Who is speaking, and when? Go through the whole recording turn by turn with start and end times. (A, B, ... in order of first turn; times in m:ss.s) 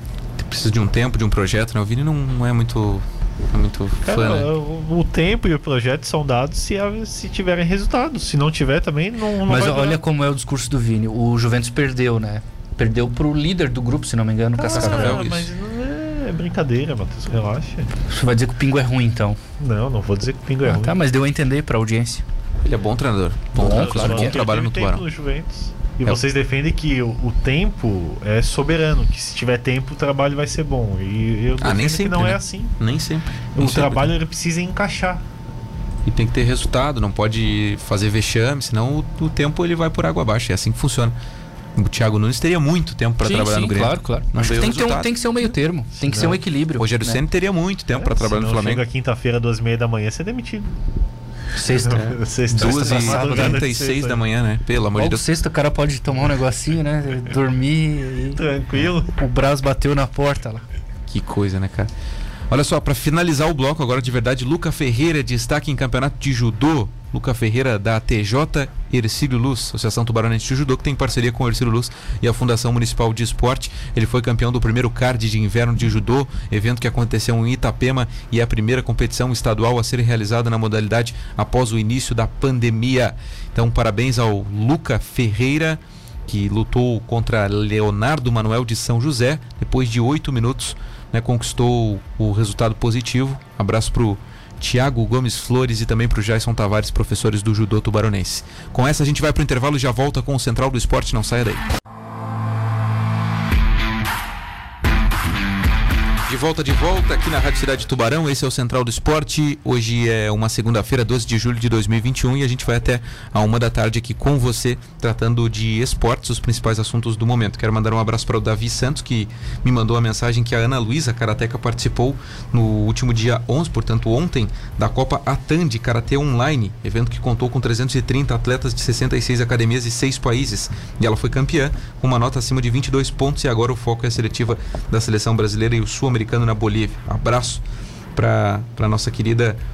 0:00.4-0:04.5 A
0:04.0-0:10.0 B
0:09.5-0:15.2 C
0:14.6-0:17.9 B
0:14.7-0:15.5 A
0:18.1-0:19.4 C
0:19.6-0:21.0 B
0:20.6-0:22.2 C
0:22.6-0:25.0 A
0:23.6-0:24.4 C
0:23.6-0:32.7 B
0:31.6-0:34.1 A
0:33.6-0:35.2 B
0:36.0-0:41.2 A
0:41.8-0:45.1 A
0:43.2-0:47.2 C
0:46.0-0:46.4 B
0:46.8-0:48.8 A
0:47.9-0:50.7 B
0:51.6-0:53.6 C
0:51.7-0:54.2 B
0:51.9-0:55.2 A
0:55.0-0:58.4 C
0:58.4-0:59.1 B
0:59.2-1:00.6 C
1:01.1-1:01.9 A
1:02.5-1:41.7 A
1:46.3-2:17.6 A
2:18.2-2:19.6 A